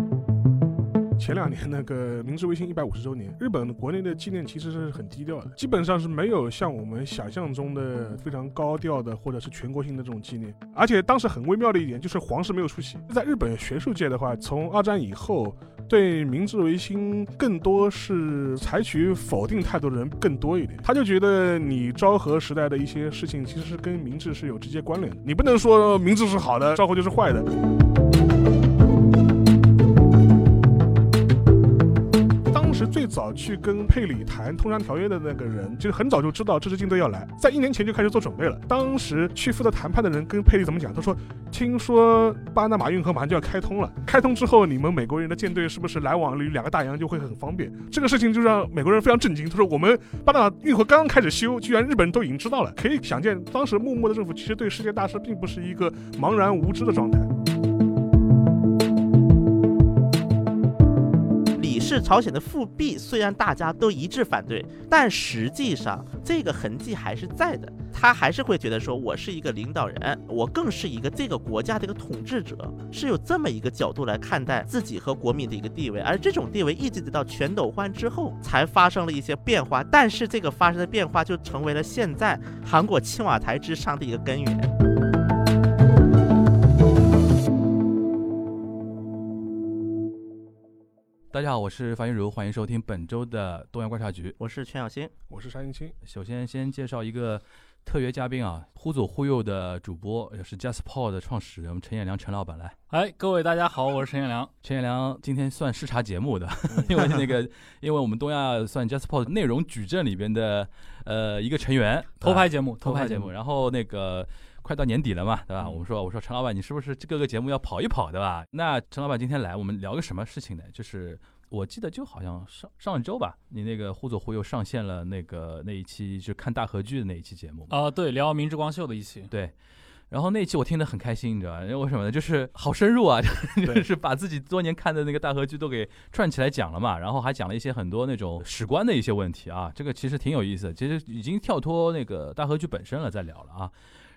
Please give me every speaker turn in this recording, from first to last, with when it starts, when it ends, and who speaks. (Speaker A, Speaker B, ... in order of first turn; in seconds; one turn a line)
Speaker A: 1.2-27.5
Speaker A: 32.5-57.3
Speaker B: 61.5-84.7
Speaker C: 91.3-94.4
Speaker B: 94.4-95.1
Speaker A: 95.3-96.0
Speaker C: 96.1-102.8
Speaker D: 102.9-104.5
Speaker C: 104.6-127.7
Speaker A: 106.7-107.0
Speaker D: 112.2-113.3
Speaker D: 127.7-129.3
Speaker C: 130.1-143.7